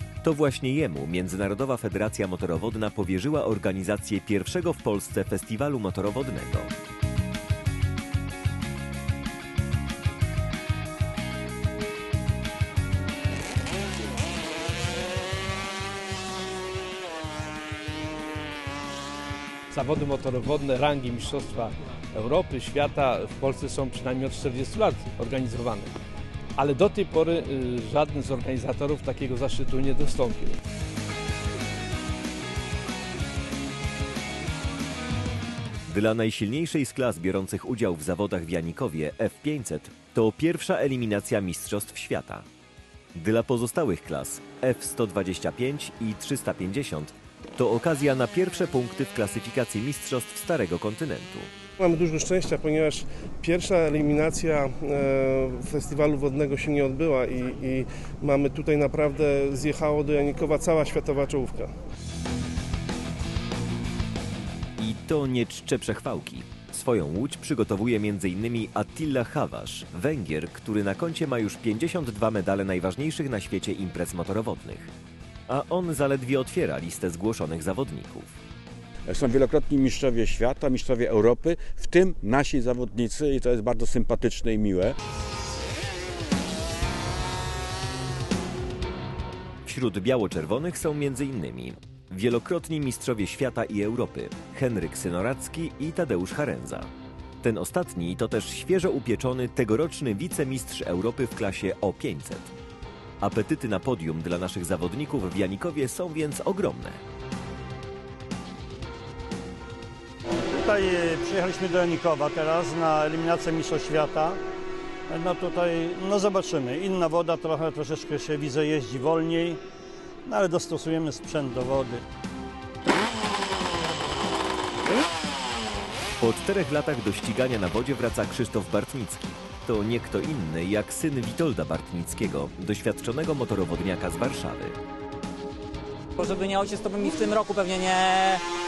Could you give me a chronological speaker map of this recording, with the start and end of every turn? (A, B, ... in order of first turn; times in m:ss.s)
0:00.2-0:06.7 A
0:19.7-0:25.9 B
0:26.6-0:30.6 B
0:35.9-0:42.4 A
0:43.2-0:51.5 A
0:51.8-1:01.7 C
1:04.8-1:14.9 A
1:15.5-1:18.3 A
1:19.1-1:24.9 D
1:29.6-1:36.9 A
1:37.4-1:42.5 A
1:43.2-1:47.0 A
1:50.5-1:54.4 E
1:55.1-1:59.6 E
2:00.2-2:02.0 E
2:06.2-2:14.8 A
2:16.2-2:18.4 F